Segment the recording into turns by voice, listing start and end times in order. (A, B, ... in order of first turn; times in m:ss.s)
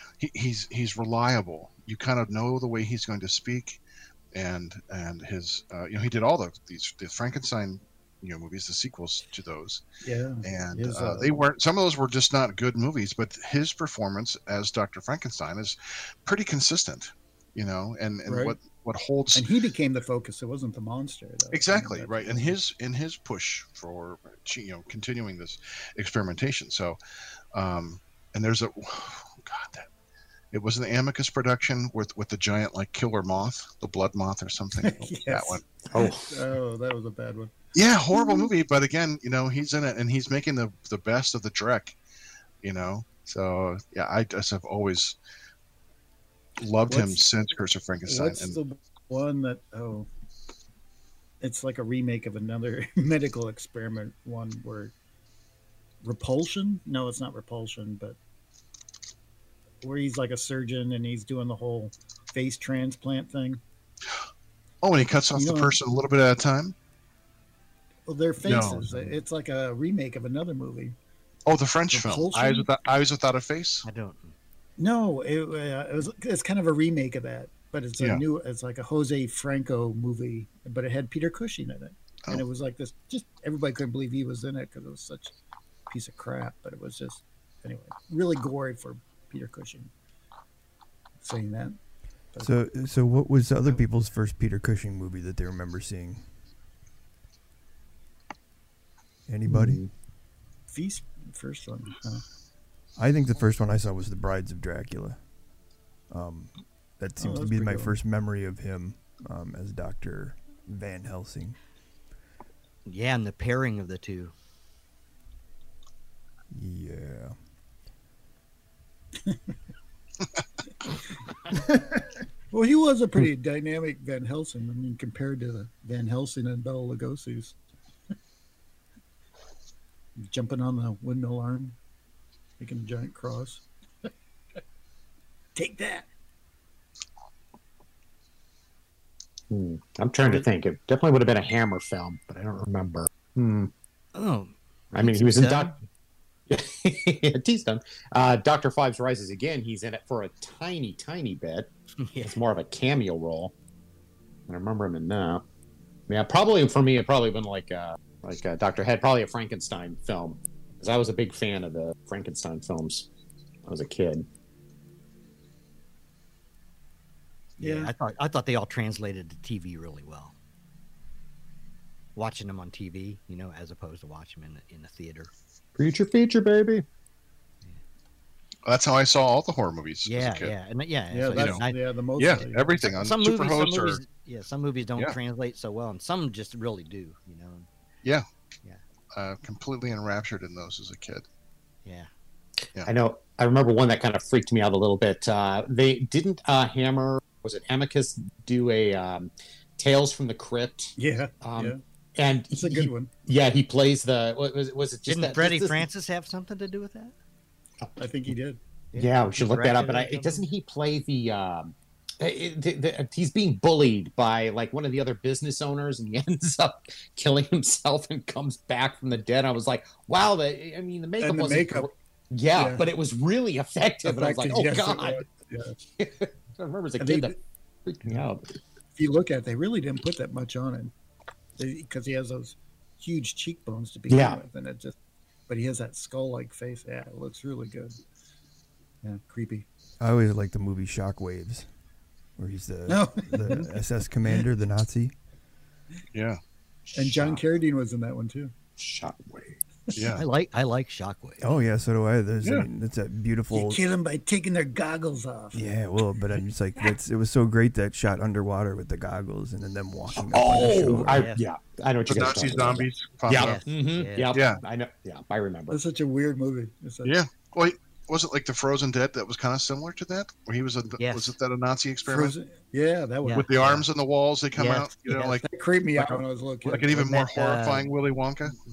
0:00.2-0:03.8 A
0:04.3-0:09.8 A
0:10.0-0:11.3 B
0:10.4-0:19.5 A
0:18.2-0:18.6 B
0:19.3-0:22.5 B
0:21.5-0:27.0 A
0:27.5-0:29.9 A
0:30.5-0:35.6 A
0:34.8-0:37.5 B
0:35.9-0:36.4 C
0:37.7-0:41.9 A
0:38.1-0:38.5 B
0:42.6-0:45.2 A
0:46.6-0:48.6 A
0:46.9-0:47.2 B
0:48.1-0:50.1 B
0:51.4-0:54.9 B
0:56.0-0:58.2 B
0:59.8-1:03.6 B
1:04.8-1:06.7 A
1:05.3-1:05.8 B
1:08.1-1:11.0 B
1:08.4-1:08.8 A
1:11.4-1:13.8 A
1:11.9-1:12.7 B
1:13.8-1:14.3 D
1:14.8-1:25.3 B
1:25.9-1:29.9 B
1:31.2-1:31.8 B
1:32.4-1:36.2 E
1:39.3-1:39.8 E
1:39.5-1:39.9 C
1:40.7-1:42.2 B
1:43.0-1:45.2 E
1:46.1-1:51.6 E
1:47.2-1:47.9 B
1:52.8-1:54.3 D
1:56.5-1:57.4 E
2:02.5-2:07.5 B
2:10.2-2:11.8 B
2:12.6-2:13.6 B
2:15.5-2:16.1 B
2:19.5-2:23.7 C
2:24.1-2:25.7 D
2:24.9-2:25.8 C
2:26.5-2:33.5 C
2:32.0-2:32.4 D
2:34.5-2:35.4 C
2:36.1-2:43.1 C
2:43.6-2:44.3 C
2:47.6-2:50.3 D
2:47.6-2:47.9 B
2:52.2-2:55.3 D
2:55.8-2:56.8 C
2:58.6-3:00.5 A
3:00.0-3:01.8 D
3:01.1-3:03.0 B
3:01.3-3:01.6 A
3:02.2-3:04.0 A
3:03.0-3:07.7 D
3:09.1-3:11.2 A
3:12.8-3:25.8 C
3:21.0-3:21.8 B
3:22.5-3:23.1 B
3:25.1-3:27.1 D
3:28.0-3:28.6 B
3:28.9-3:30.4 D
3:29.0-3:45.3 C
3:41.2-3:41.9 B
3:42.5-3:42.8 B
3:44.0-3:45.8 B
3:46.0-3:47.3 C
3:47.0-3:47.3 B
3:47.8-3:48.4 C
3:49.0-3:50.9 B
3:51.6-3:55.0 B
3:54.1-3:54.4 C
3:55.5-3:58.0 B
3:59.0-3:59.6 B
4:00.0-4:01.7 E
4:02.4-4:05.1 E
4:02.9-4:03.7 B
4:06.1-4:06.4 A
4:06.9-4:07.4 C
4:06.9-4:08.5 B
4:08.8-4:09.6 C
4:09.9-4:10.2 A
4:10.2-4:11.5 D
4:11.4-4:13.8 E
4:13.5-4:15.6 B
4:15.5-4:21.3 E
4:20.2-4:25.8 C
4:21.1-4:21.4 D
4:22.1-4:23.6 A
4:23.3-4:24.4 D
4:24.3-4:24.6 A
4:25.7-4:27.1 B
4:27.0-4:32.3 A
4:31.0-4:31.3 D
4:32.0-4:33.5 B
4:33.2-4:33.9 D
4:33.4-4:35.4 A
4:34.5-4:35.4 D
4:35.4-4:36.9 B
4:36.0-4:38.6 A
4:36.9-4:37.9 D